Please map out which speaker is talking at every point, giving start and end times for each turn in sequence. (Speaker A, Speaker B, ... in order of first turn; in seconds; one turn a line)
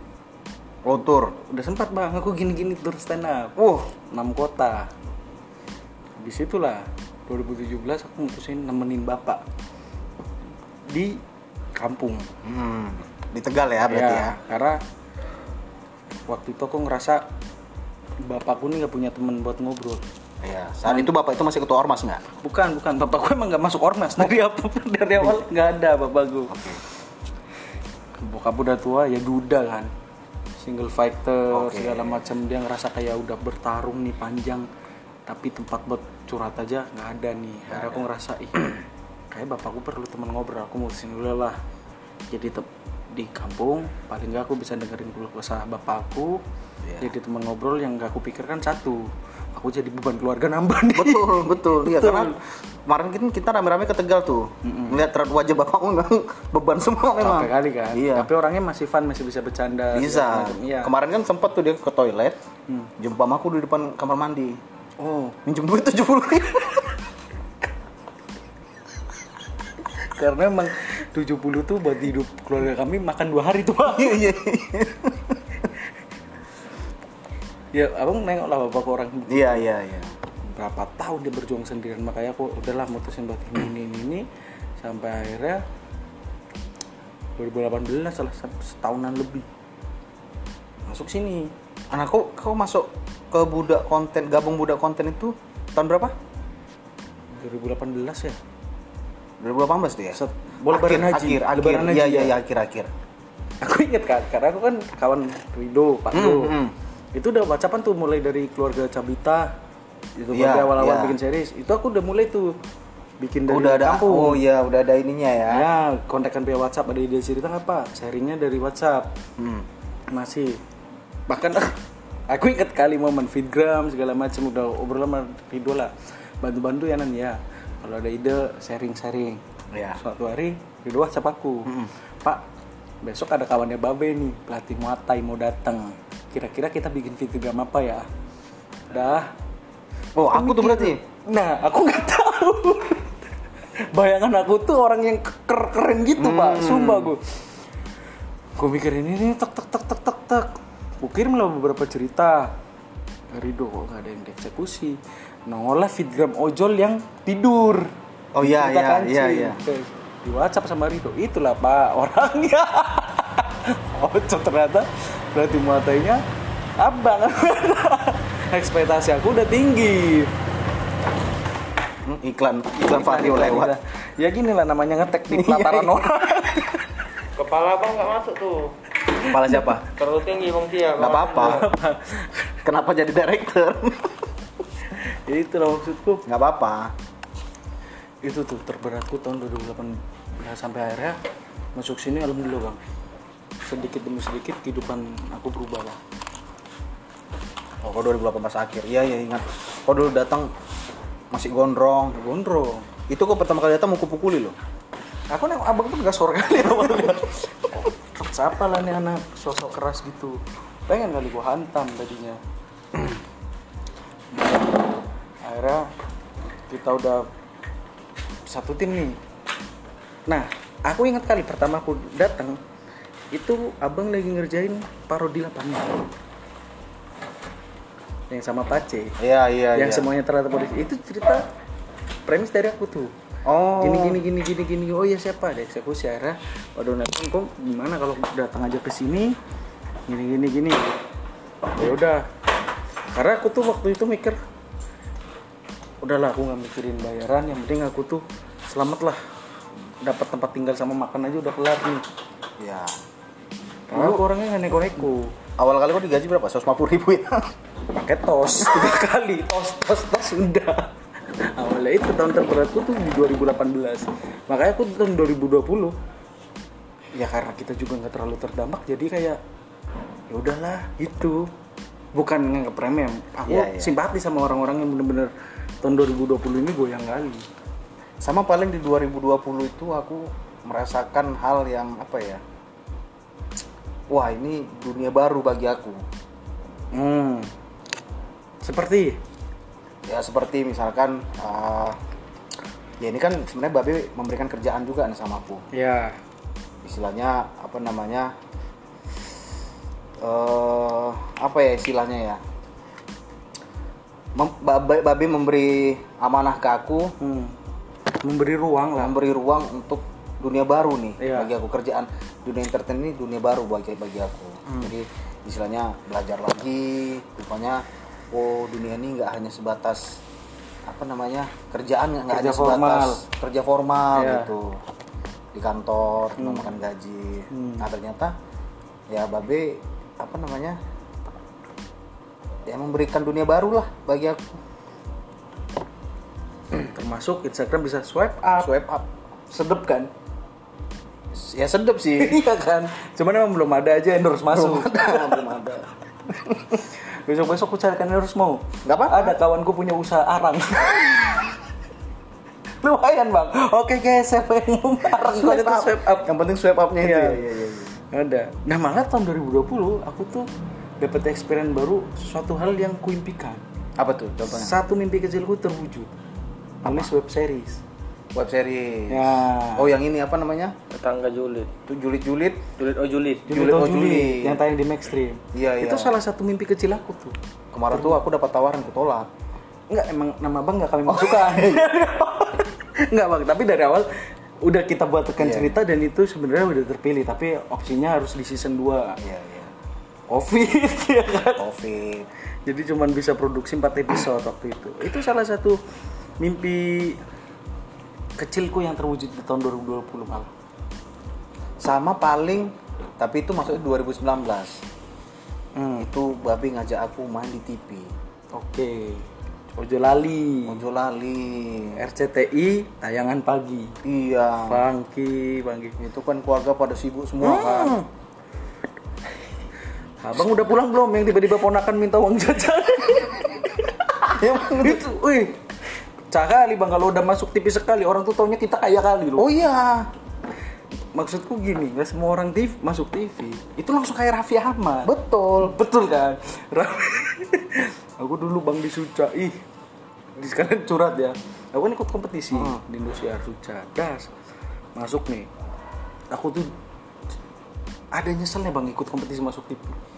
Speaker A: 0.8-1.3
Speaker B: 1.4-4.9
Speaker A: 3.5-3.9
Speaker B: 6.2-9.4
Speaker B: 10.9-11.2
Speaker B: 11.8-12.3
Speaker A: 12.4-14.4
Speaker B: 13.9-14.8
Speaker B: 16.3-17.2
Speaker B: 18.2-20.0
Speaker A: 20.4-22.2
Speaker B: 22.4-26.6
Speaker A: 25.2-25.4
Speaker A: 26.5-26.8
Speaker B: 28.2-29.9
Speaker B: 30.6-34.7
Speaker A: 31.5-32.3
Speaker B: 35.3-38.8
Speaker A: 37.7-38.0
Speaker B: 39.3-41.6
Speaker B: 42.3-46.4
Speaker A: 46.8-47.1
Speaker B: 47.0-52.4
Speaker A: 50.9-58.3
Speaker B: 54.6-55.0
Speaker B: 57.2-60.9
Speaker A: 59.9-62.4
Speaker A: 63.0-64.6
Speaker B: 65.0-65.4
Speaker A: 65.4-67.0
Speaker B: 69.9-74.3
Speaker A: 73.8-75.4
Speaker B: 77.7-79.6
Speaker A: 79.3-80.1
Speaker B: 80.5-84.2
Speaker B: 84.8-85.6
Speaker B: 87.4-89.5
Speaker B: 90.9-91.5
Speaker A: 91.9-96.1
Speaker B: 97.3-98.4
Speaker A: 99.4-102.9
Speaker B: 100.1-102.3
Speaker B: 103.6-106.6
Speaker A: 106.1-106.7
Speaker B: 107.1-109.5
Speaker B: 110.2-112.5
Speaker A: 110.3-111.2
Speaker B: 113.2-114.4
Speaker A: 113.5-115.7
Speaker B: 115.5-119.1
Speaker A: 119.4-119.7
Speaker B: 120.1-120.6
Speaker B: 121.3-129.4
Speaker A: 129.7-130.0
Speaker B: 129.9-131.7
Speaker A: 131.7-131.9
Speaker B: 133.0-138.1
Speaker B: 138.9-139.3
Speaker A: 140.2-141.0
Speaker B: 140.3-143.2
Speaker B: 143.9-147.3
Speaker A: 146.2-147.1
Speaker B: 148.6-152.5
Speaker B: 153.3-166.2
Speaker A: 158.3-159.6
Speaker B: 166.8-170.3
Speaker A: 172.0-173.7
Speaker B: 172.8-176.9
Speaker A: 175.3-176.0
Speaker C: 177.4-178.7
Speaker B: 179.2-179.6
Speaker A: 179.2-179.8
Speaker C: 179.9-181.6
Speaker A: 180.9-181.7
Speaker B: 181.3-182.5
Speaker A: 182.6-184.2
Speaker B: 184.9-186.2
Speaker A: 186.3-186.9
Speaker B: 188.2-191.2
Speaker B: 191.7-192.8
Speaker B: 193.6-196.0
Speaker A: 197.8-200.5
Speaker A: 201.3-202.2
Speaker B: 202.1-202.9
Speaker A: 203.1-204.6
Speaker B: 205.3-212.4
Speaker B: 215.4-215.9
Speaker B: 216.7-217.3
Speaker B: 218.5-219.2
Speaker B: 220.3-222.6
Speaker B: 223.3-226.0
Speaker B: 228.3-229.2
Speaker A: 229.2-230.1
Speaker B: 229.7-231.4
Speaker B: 232.2-233.1
Speaker A: 233.4-234.2
Speaker B: 233.8-239.3
Speaker B: 240.1-241.0
Speaker B: 241.7-242.3
Speaker B: 243.1-244.4
Speaker B: 246.0-249.2
Speaker B: 250.0-252.0
Speaker A: 252.6-253.0
Speaker B: 253.9-255.3
Speaker A: 253.9-254.2
Speaker A: 255.6-257.5
Speaker B: 257.9-265.9
Speaker B: 267.1-269.4
Speaker B: 270.3-271.5
Speaker B: 272.1-277.4
Speaker A: 273.4-274.0
Speaker A: 278.2-282.4
Speaker A: 284.1-286.0
Speaker B: 286.9-287.5
Speaker B: 288.6-289.2
Speaker A: 290.1-292.0
Speaker A: 293.0-295.6
Speaker B: 295.7-296.1
Speaker A: 296.8-298.3
Speaker A: 300.2-302.4
Speaker A: 304.3-307.1
Speaker B: 307.2-307.6
Speaker B: 308.1-309.1
Speaker A: 308.9-320.2
Speaker B: 311.2-311.5
Speaker A: 320.9-324.8
Speaker B: 322.3-323.2
Speaker B: 324.1-324.5
Speaker A: 325.5-328.4
Speaker B: 326.4-326.7
Speaker B: 327.5-327.9
Speaker A: 329.1-330.8
Speaker A: 332.7-334.5
Speaker B: 336.7-338.8
Speaker A: 338.6-339.1
Speaker B: 339.5-340.1
Speaker A: 341.3-342.4
Speaker B: 342.2-345.5
Speaker A: 344.5-345.9
Speaker B: 346.6-351.5
Speaker A: 348.8-349.4
Speaker B: 352.8-356.3
Speaker A: 355.1-357.9
Speaker B: 357.0-357.4
Speaker B: 358.0-360.5
Speaker B: 361.0-363.6
Speaker A: 364.0-364.8
Speaker B: 364.4-366.1
Speaker B: 366.8-367.8
Speaker A: 366.8-367.1
Speaker A: 368.3-370.8
Speaker B: 369.1-369.9
Speaker C: 370.9-371.7
Speaker A: 371.9-372.7
Speaker C: 372.8-373.5
Speaker A: 373.5-374.6
Speaker B: 373.5-377.4
Speaker A: 375.5-376.1
Speaker A: 377.7-379.3
Speaker B: 377.9-378.2
Speaker B: 379.9-384.1
Speaker A: 381.1-381.9
Speaker B: 384.6-389.2
Speaker A: 385.4-385.8
Speaker A: 389.2-389.7
Speaker B: 390.3-391.6
Speaker A: 391.6-392.3
Speaker B: 392.6-395.8
Speaker B: 396.4-397.2
Speaker B: 398.4-400.5
Speaker A: 401.8-404.8
Speaker B: 405.8-406.1
Speaker A: 406.0-408.1
Speaker B: 408.5-410.8
Speaker A: 410.6-412.0
Speaker B: 411.9-413.9
Speaker A: 414.0-414.8
Speaker B: 414.6-415.9
Speaker A: 416.0-418.0
Speaker B: 417.4-418.0
Speaker B: 420.2-423.9
Speaker A: 424.2-425.1
Speaker B: 424.6-425.6
Speaker B: 426.3-429.5
Speaker A: 429.4-430.1
Speaker B: 431.1-439.6
Speaker A: 435.0-435.7
Speaker B: 440.4-444.3
Speaker A: 442.5-442.8
Speaker B: 444.9-445.5
Speaker B: 446.3-446.7
Speaker B: 448.1-450.0